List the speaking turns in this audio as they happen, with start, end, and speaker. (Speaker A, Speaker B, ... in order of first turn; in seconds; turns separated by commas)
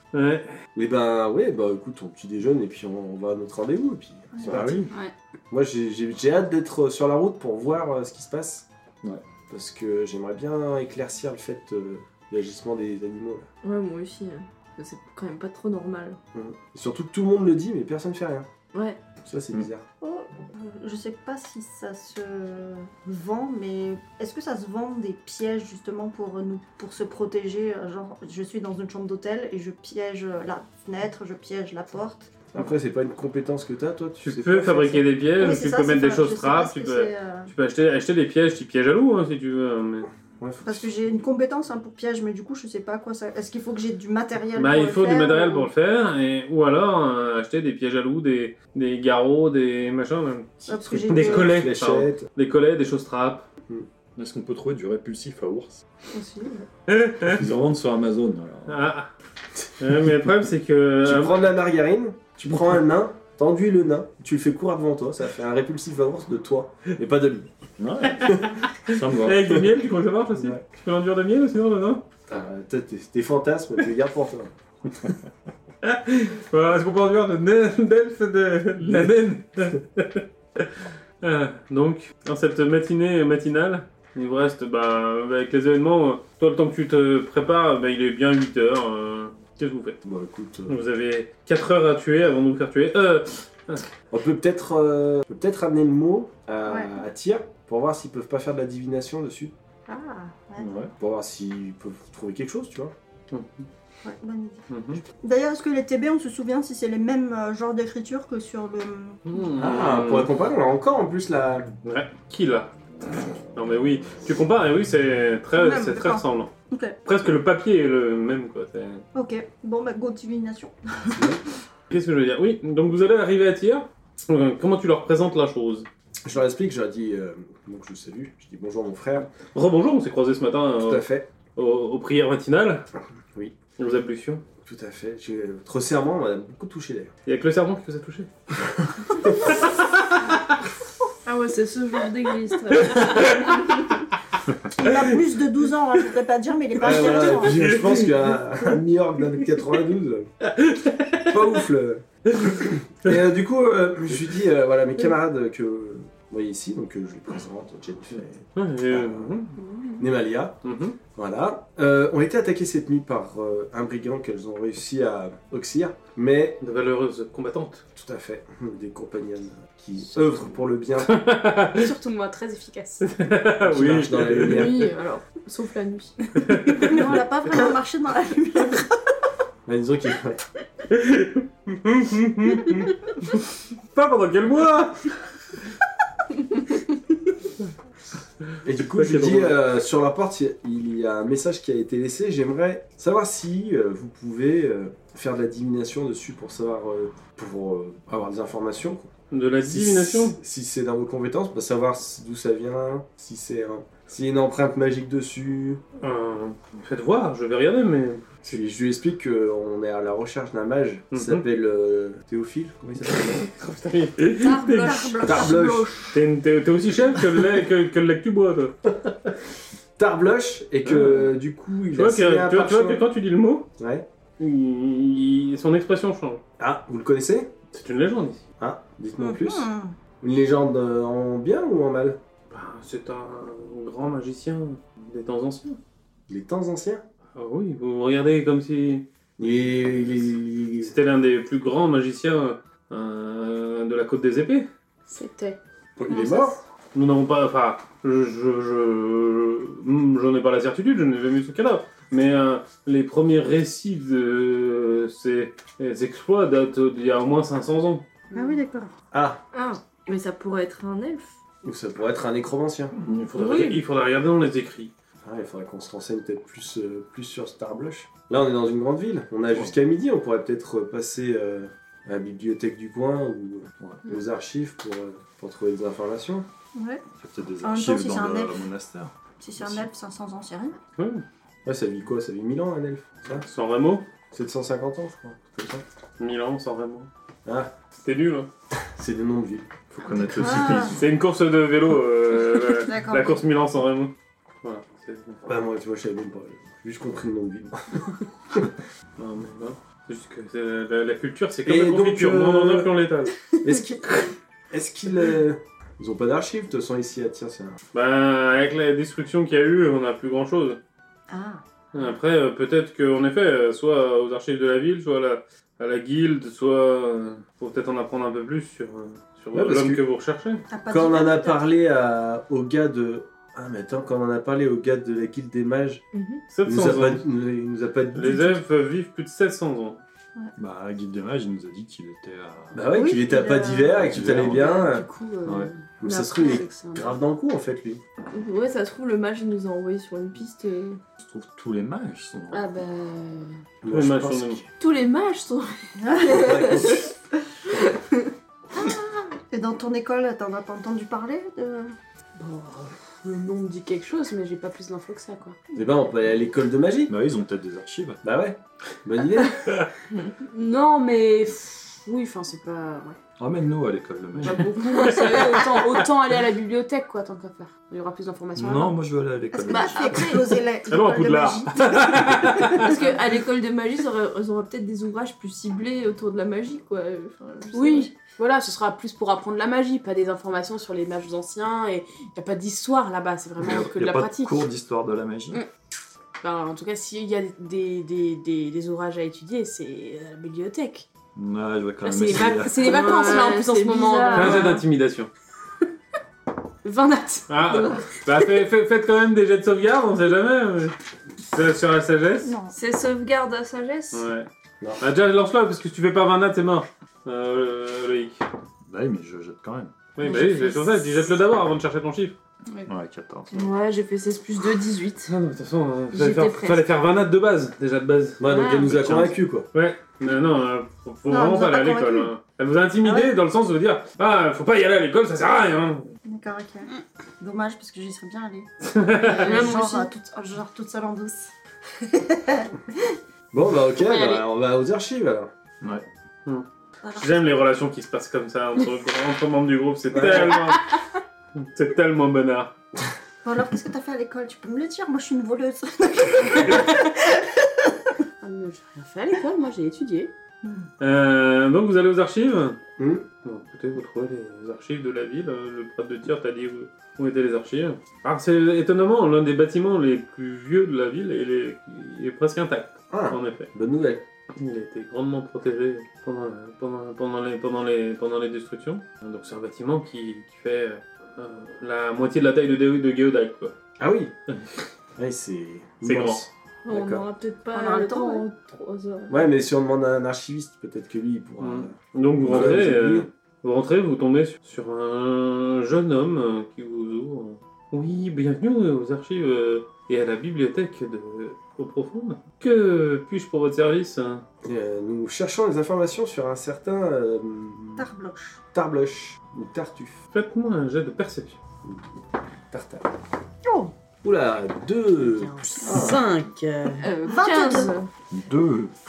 Speaker A: 0.1-0.6, Speaker B: 0.8-4.9, Speaker C: 4.4-4.9, Speaker B: 5.5-8.7, Speaker B: 9.5-13.5, Speaker D: 13.6-16.2, Speaker B: 16.3-18.5, Speaker D: 18.7-19.0, Speaker B: 19.2-19.9, Speaker E: 20.0-32.4, Speaker B: 32.5-35.1, Speaker A: 34.2-40.1, Speaker E: 35.4-37.5, Speaker B: 40.4-40.9, Speaker E: 40.6-45.7, Speaker A: 44.6-53.5, Speaker E: 50.7-51.6, Speaker B: 50.7-52.3, Speaker C: 54.2-55.8, Speaker E: 56.1-56.6, Speaker A: 56.9-57.4, Speaker C: 57.3-58.8, Speaker A: 58.7-59.1, Speaker A: 59.8-61.4, Speaker B: 61.0-67.5, Speaker C: 67.8-69.7, Speaker A: 68.7-72.0, Speaker B: 70.3-70.6, Speaker B: 72.3-74.5, Speaker A: 75.8-90.0, Speaker B: 90.0-90.8, Speaker A: 90.7-93.8, Speaker B: 94.1-99.5, Speaker E: 96.7-96.9, Speaker E: 99.9-100.7, Speaker C: 100.6-100.9, Speaker B: 101.0-102.9, Speaker A: 103.3-103.7, Speaker E: 104.0-109.2, Speaker A: 104.7-105.0, Speaker A: 109.3-110.3, Speaker B: 109.6-111.7, Speaker A: 111.8-116.5, Speaker E: 115.6-117.0, Speaker A: 117.0-119.0, Speaker E: 119.1-121.4, Speaker B: 121.2-121.4, Speaker A: 121.9-125.9, Speaker B: 126.2-129.3, Speaker A: 129.5-132.9, Speaker B: 130.8-131.3, Speaker A: 133.8-134.4, Speaker B: 134.6-137.1, Speaker A: 137.3-138.3, Speaker A: 139.2-140.6, Speaker B: 139.2-139.6, Speaker D: 141.3-143.5, Speaker A: 142.8-143.8, Speaker E: 144.7-147.8, Speaker B: 146.8-150.3, Speaker A: 147.2-148.4, Speaker A: 150.4-151.6, Speaker B: 151.2-159.4, Speaker A: 152.3-153.1, Speaker A: 158.6-159.6, Speaker F: 159.6-160.1, Speaker B: 160.0-160.6, Speaker A: 160.6-161.0, Speaker B: 161.2-166.6, Speaker A: 166.6-167.8, Speaker B: 167.9-171.2, Speaker A: 171.1-171.9, Speaker F: 171.7-173.1, Speaker A: 173.0-174.9, Speaker B: 173.6-174.9, Speaker D: 174.4-177.0, Speaker A: 176.4-176.9, Speaker E: 176.8-178.9, Speaker B: 179.7-180.4, Speaker A: 180.9-183.4, Speaker A: 183.9-185.1, Speaker B: 188.6-199.1, Speaker A: 188.8-189.6, Speaker A: 199.3-200.4, Speaker B: 199.6-205.8, Speaker A: 206.0-208.6, Speaker B: 208.4-213.5, Speaker A: 211.1-211.4, Speaker A: 213.3-215.5, Speaker E: 214.4-216.0, Speaker B: 215.2-216.2, Speaker A: 216.1-218.7, Speaker B: 219.0-219.3, Speaker B: 220.0-223.1, Speaker A: 220.8-221.3, Speaker A: 221.9-223.7, Speaker B: 223.8-224.1, Speaker A: 224.4-226.4, Speaker B: 226.6-227.5, Speaker A: 227.7-228.4, Speaker B: 228.6-229.7, Speaker E: 229.2-229.9, Speaker B: 230.2-232.2, Speaker A: 232.5-235.8, Speaker B: 236.3-237.0, Speaker A: 237.4-239.1, Speaker B: 239.4-241.0, Speaker A: 240.8-244.7, Speaker F: 245.1-245.6, Speaker B: 246.0-246.6, Speaker A: 246.9-258.1, Speaker F: 258.3-258.6, Speaker E: 258.3-258.9, Speaker B: 259.1-259.4, Speaker D: 259.5-261.4, Speaker B: 261.6-262.9, Speaker A: 263.0-264.9, Speaker D: 263.4-263.8, Speaker B: 265.2-276.5, Speaker E: 276.8-277.0, Speaker C: 277.2-279.8, Speaker E: 277.6-278.6, Speaker E: 279.4-280.8, Speaker A: 281.0-281.2, Speaker B: 281.6-283.4, Speaker A: 283.3-284.1, Speaker B: 284.3-285.8, Speaker A: 286.2-287.1, Speaker B: 287.4-287.7, Speaker A: 288.0-288.5, Speaker B: 288.8-289.7, Speaker C: 289.9-291.1, Speaker E: 290.0-291.0, Speaker A: 290.9-295.4, Speaker E: 292.7-293.4, Speaker B: 295.4-298.7, Speaker A: 299.2-303.4, Speaker B: 301.7-302.9, Speaker B: 303.6-304.1, Speaker B: 304.7-307.8, Speaker A: 307.9-310.8, Speaker E: 311.3-311.6, Speaker A: 311.9-320.6, Speaker B: 319.5-320.0, Speaker E: 320.7-321.6, Speaker B: 320.9-326.0, Speaker D: 326.1-326.4, Speaker A: 326.5-327.2, Speaker B: 326.7-328.6, Speaker A: 328.1-330.0, Speaker C: 330.6-333.0, Speaker B: 332.7-335.1, Speaker E: 332.9-333.4, Speaker F: 333.3-333.8, Speaker C: 333.8-334.9, Speaker F: 334.5-337.2, Speaker C: 335.4-335.7, Speaker B: 336.0-338.0, Speaker D: 338.3-341.0, Speaker C: 341.2-342.8, Speaker F: 342.5-343.6, Speaker B: 343.8-344.7, Speaker A: 343.9-344.6, Speaker D: 344.8-347.0, Speaker E: 346.0-346.5, Speaker B: 346.3-347.1, Speaker D: 347.8-348.3, Speaker E: 348.7-351.9, Speaker F: 352.4-355.6, Speaker B: 355.8-357.1, Speaker C: 357.1-358.2, Speaker B: 358.2-359.7, Speaker F: 360.5-363.2, Speaker C: 363.4-364.8, Speaker F: 364.4-369.0, Speaker D: 365.1-365.6, Speaker C: 368.6-370.4, Speaker E: 369.5-372.9, Speaker F: 369.7-370.6, Speaker A: 370.9-372.9, Speaker D: 372.8-378.2, Speaker F: 377.7-384.7, Speaker C: 383.6-385.6, Speaker F: 386.4-391.1, Speaker C: 391.3-392.9, Speaker F: 392.0-394.8, Speaker D: 392.8-394.8, Speaker A: 394.3-395.3, Speaker F: 396.8-397.9, Speaker A: 397.5-402.5, Speaker E: 402.4-402.8, Speaker D: 402.7-404.3, Speaker A: 404.1-404.5, Speaker A: 405.0-408.4, Speaker C: 408.9-409.9, Speaker A: 410.1-412.4, Speaker D: 410.2-410.9, Speaker C: 412.9-413.8, Speaker D: 413.5-415.4, Speaker A: 415.3-418.4, Speaker D: 416.1-416.9, Speaker B: 418.4-419.7, Speaker D: 418.5-418.9, Speaker C: 418.8-419.4, Speaker A: 419.7-426.1, Speaker E: 421.3-422.3, Speaker E: 423.0-423.3, Speaker E: 426.2-428.7, Speaker A: 428.8-429.7, Speaker E: 429.2-433.1, Speaker D: 429.3-430.1, Speaker B: 433.5-435.5, Speaker A: 436.5-440.9, Speaker B: 440.1-440.6, Speaker A: 441.6-442.7, Speaker E: 443.4-447.9, Speaker F: 448.4-450.3, Speaker A: 451.0-452.8, Speaker B: 453.0-453.3, Speaker A: 453.4-463.7, Speaker B: 463.1-464.2, Speaker A: 464.5-473.7, Speaker B: 474.0-474.3, Speaker B: 475.2-477.3, Speaker A: 476.0-476.4, Speaker D: 476.9-479.4, Speaker E: 477.8-478.5, Speaker B: 479.3-483.3, Speaker A: 481.6-494.4, Speaker B: 494.6-498.1, Speaker E: 498.0-498.6, Speaker B: 498.7-500.2, Speaker A: 500.3-501.6, Speaker B: 502.7-503.1, Speaker E: 503.6-503.9, Speaker B: 504.2-506.2, Speaker F: 505.3-507.1, Speaker E: 505.9-506.2, Speaker D: 507.0-508.1, Speaker E: 507.3-507.9, Speaker C: 508.3-508.9